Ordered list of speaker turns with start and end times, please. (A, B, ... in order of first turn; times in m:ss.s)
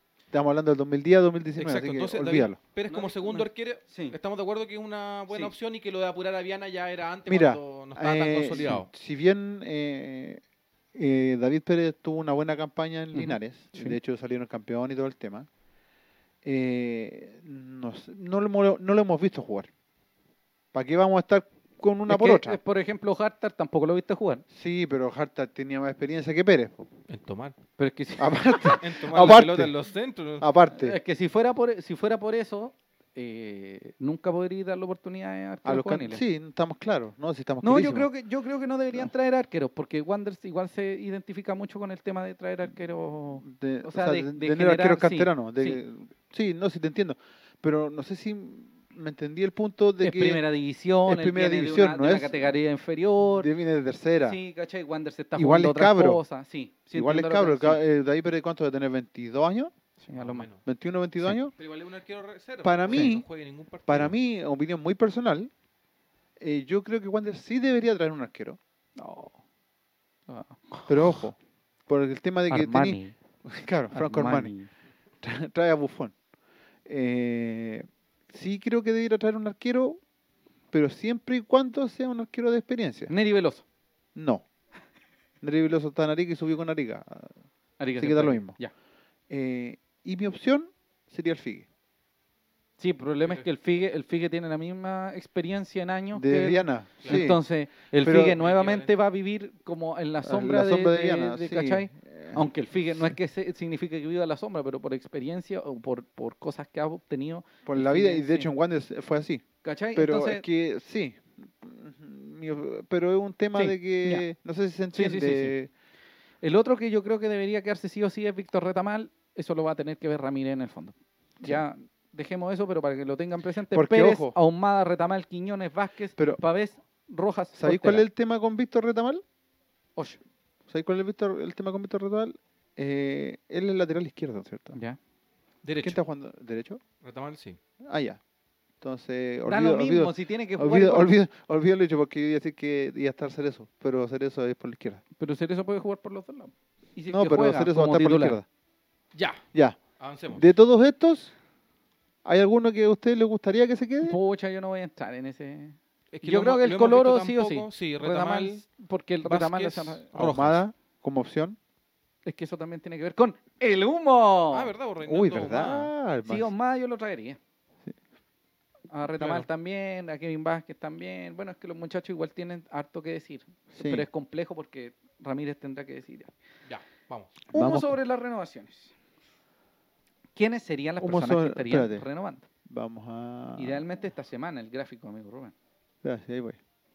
0:00.3-0:02.6 A
0:01.6-0:08.9 B
0:02.9-0:04.2 C
0:07.2-0:10.4 A
0:10.9-0:15.5 A
0:13.1-0:14.0 C
0:16.4-0:19.7 A
0:20.7-0:22.6 A
0:22.1-0:24.4 C
0:24.5-0:26.9 A
0:27.1-0:27.6 B
0:27.8-0:28.8 C
0:28.2-0:29.7 A
0:28.8-0:30.5 B
0:30.4-0:31.0 A
0:30.7-0:36.2 C
0:35.6-0:38.1 A
0:37.6-0:45.8 C
0:43.4-0:50.4 A
0:50.0-0:53.5 C
0:51.0-0:52.5 A
0:53.3-0:54.4 A
0:54.2-0:57.8 C
0:55.4-0:56.2 A
0:56.9-0:59.7 A
1:00.0-1:00.5 C
1:00.1-1:00.6 B
1:00.6-1:01.5 A
1:01.5-1:04.1 B
1:02.6-1:03.2 A
1:03.9-1:05.5 A
1:06.4-1:08.6 A
1:09.0-1:09.4 C
1:10.3-1:11.2 C
1:10.9-1:14.5 A
1:12.5-1:13.2 C
1:13.9-1:14.7 C
1:15.2-1:16.1 A
1:16.8-1:20.0 A
1:20.7-1:23.1 A
1:23.1-1:23.6 C
1:24.1-1:24.4 A
1:25.4-1:27.3 A
1:27.8-1:28.7 C
1:28.0-1:28.6 A
1:29.3-1:31.6 A
1:32.8-1:48.5 C
1:36.1-1:37.4 A
1:37.0-1:37.3 B
1:38.0-1:38.4 A
1:38.1-1:38.9 B
1:40.2-1:42.5 A
1:47.6-1:49.4 A
1:49.6-1:50.4 C
1:49.9-1:55.7 A
1:53.5-1:54.2 C
1:54.9-1:55.5 C
1:56.4-2:08.0 C
2:03.7-2:04.3 A
2:07.6-2:09.2 A
2:10.7-2:14.8 A
2:14.7-2:15.0 C
2:15.6-2:16.0 B
2:15.8-2:16.8 A
2:17.0-2:17.6 B
2:17.8-2:18.2 A
2:18.8-2:25.0 A
2:19.5-2:21.2 C
2:25.2-2:28.4 C
2:27.1-2:28.4 A
2:29.1-2:29.4 B
2:29.5-2:31.3 A
2:30.0-2:30.4 B
2:32.2-2:34.2 A
2:34.0-2:40.1 C
2:36.1-2:38.6 B
2:39.2-2:40.6 B
2:40.1-2:41.6 A
2:42.2-2:44.7 C
2:44.5-2:45.9 B
2:45.0-2:46.5 A
2:46.2-2:47.4 C
2:48.9-2:56.3 C
2:49.2-2:49.5 B
2:53.7-2:54.0 A
2:56.7-2:57.3 B
2:57.5-2:58.9 C
2:57.5-2:57.9 A
3:00.4-3:02.4 C
3:01.0-3:02.0 A
3:02.7-3:03.8 A
3:03.6-3:05.5 C
3:06.0-3:06.6 A